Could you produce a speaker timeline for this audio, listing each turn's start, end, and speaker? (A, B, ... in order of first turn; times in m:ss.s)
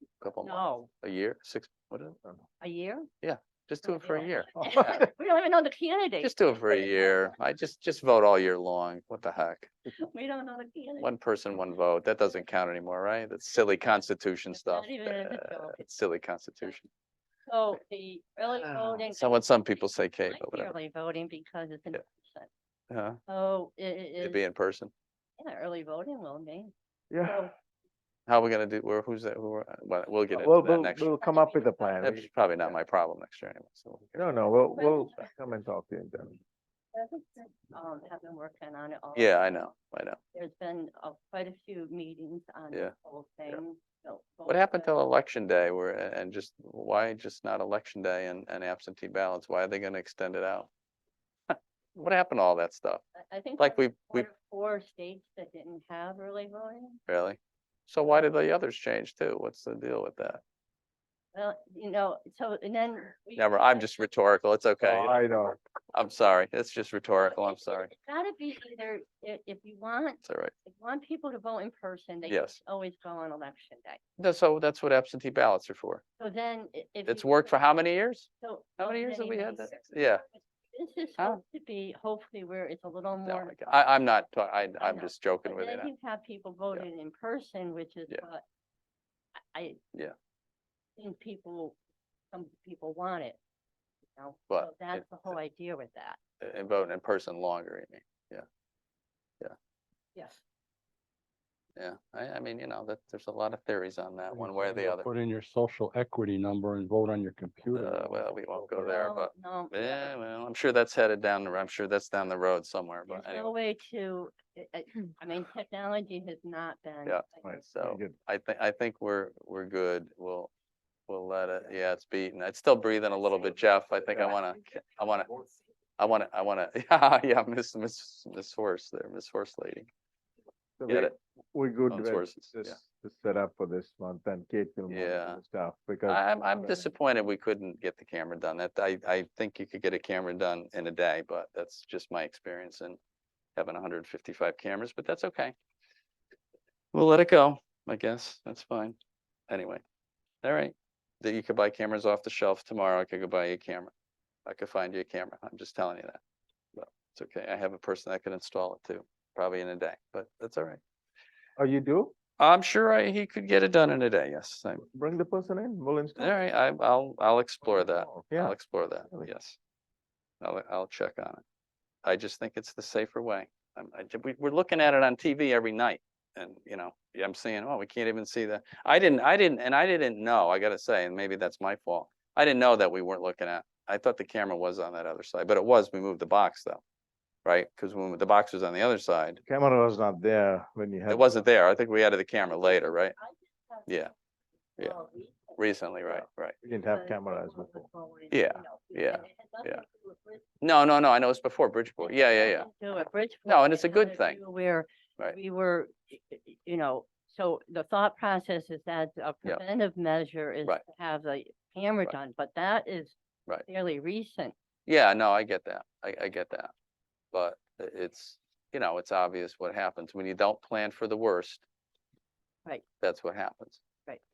0:00.2-0:02.2 A
0:00.4-0:00.9 B
0:02.6-0:03.1 B
0:03.2-0:05.0 A
0:03.8-0:07.0 B
0:06.2-0:09.7 A
0:10.0-0:11.1 B
0:11.0-0:16.9 A
0:14.5-0:15.8 B
0:17.5-0:22.5 B
0:18.6-0:20.7 A
0:22.9-0:23.2 A
0:23.3-0:24.4 B
0:24.2-0:24.9 A
0:25.4-0:26.7 B
0:27.1-0:27.5 C
0:27.2-0:27.5 B
0:28.3-0:31.1 A
0:30.3-0:32.3 C
0:31.2-0:32.2 B
0:32.0-0:34.3 A
0:34.2-0:36.4 C
0:34.8-0:35.2 B
0:36.9-0:39.4 B
0:39.1-0:40.2 A
0:40.3-0:44.9 B
0:44.4-0:50.7 A
0:51.5-0:53.0 A
0:53.2-0:57.0 B
0:53.6-0:54.3 A
0:57.1-1:00.4 A
1:01.3-1:04.0 B
1:03.4-1:05.2 A
1:04.8-1:05.6 C
1:05.9-1:07.9 A
1:07.3-1:14.0 B
1:10.2-1:10.5 A
1:12.3-1:12.6 A
1:14.2-1:16.0 A
1:16.2-1:17.6 B
1:17.0-1:20.2 A
1:18.4-1:19.8 B
1:20.7-1:23.6 B
1:23.2-1:25.9 A
1:24.8-1:28.4 B
1:29.5-1:29.8 B
1:31.0-1:31.8 B
1:32.3-1:33.4 B
1:34.2-1:36.2 B
1:34.5-1:35.0 A
1:36.4-1:38.4 A
1:40.1-1:40.4 B
1:41.8-1:45.1 A
1:44.3-1:49.1 D
1:47.7-1:53.5 A
1:48.8-1:50.2 B
1:53.1-1:57.2 B
1:57.0-2:00.5 A
1:57.4-1:58.1 C
2:01.1-2:05.3 A
2:06.0-2:09.9 A
2:10.8-2:16.8 C
2:10.9-2:11.2 A
2:11.9-2:12.8 A
2:14.9-2:15.4 A
2:16.1-2:23.0 A
2:23.6-2:25.5 A
2:26.9-2:29.0 A
2:29.5-2:29.8 A
2:30.4-2:33.9 A
2:34.4-2:36.2 A
2:36.8-2:40.8 A
2:41.6-2:42.1 C
2:42.4-2:44.8 A
2:44.9-2:46.4 C
2:46.2-2:49.6 A
2:47.8-2:48.6 C
2:50.4-2:51.4 A
2:52.0-3:06.8 A
3:07.4-3:09.4 A
3:09.4-3:11.4 C
3:11.1-3:13.2 A
3:12.5-3:14.1 B
3:13.9-3:14.1 A
3:14.8-3:16.2 B
3:15.6-3:16.6 A
3:16.6-3:17.9 C
3:16.9-3:20.4 B
3:18.3-3:19.8 A
3:20.6-3:22.7 A
3:22.0-3:34.5 B
3:23.4-3:24.4 A
3:34.9-3:36.7 A
3:37.3-3:41.6 A
3:43.0-3:43.8 A